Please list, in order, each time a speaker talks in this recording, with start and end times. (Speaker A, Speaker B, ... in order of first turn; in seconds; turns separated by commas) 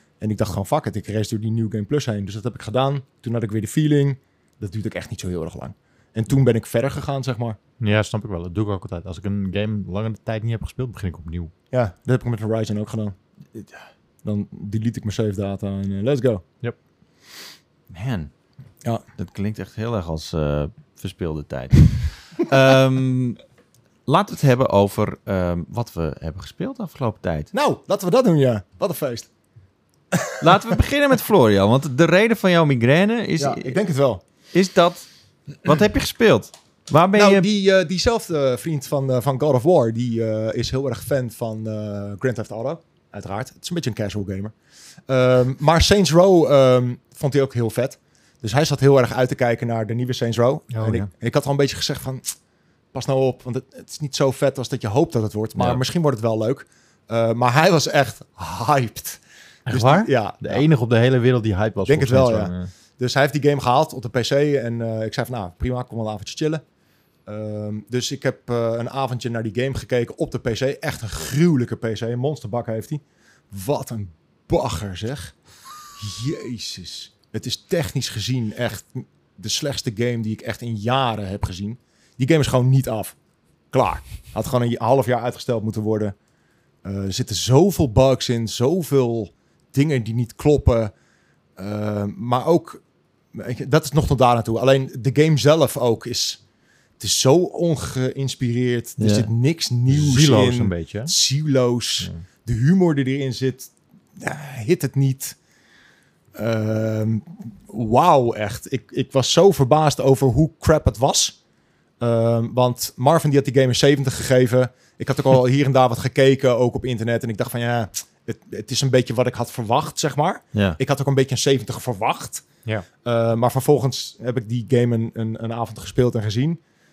Speaker A: 0.2-7.6, Speaker B: 7.8-11.5, Speaker A: 11.7-13.2, Speaker A: 14.2-16.4, Speaker C: 17.9-18.3, Speaker C: 19.2-23.4, Speaker C: 24.1-27.5, Speaker A: 27.5-29.3, Speaker A: 30.1-30.5, Speaker C: 30.4-33.8, Speaker A: 33.4-34.2, Speaker C: 34.5-35.1, Speaker C: 35.6-37.5, Speaker A: 37.1-44.5, Speaker A: 45.1-52.3, Speaker B: 50.7-51.1, Speaker A: 52.9-60.6, Speaker B: 59.6-62.7, Speaker A: 61.9-66.6, Speaker A: 67.2-75.3, Speaker A: 76.0-83.2, Speaker A: 83.7-86.1, Speaker A: 86.8-90.9, Speaker A: 91.6-92.8, Speaker A: 93.3-96.4, Speaker A: 97.0-105.4, Speaker C: 99.0-99.3, Speaker B: 99.9-101.1, Speaker A: 106.3-111.4, Speaker A: 112.0-122.5, Speaker A: 123.0-126.6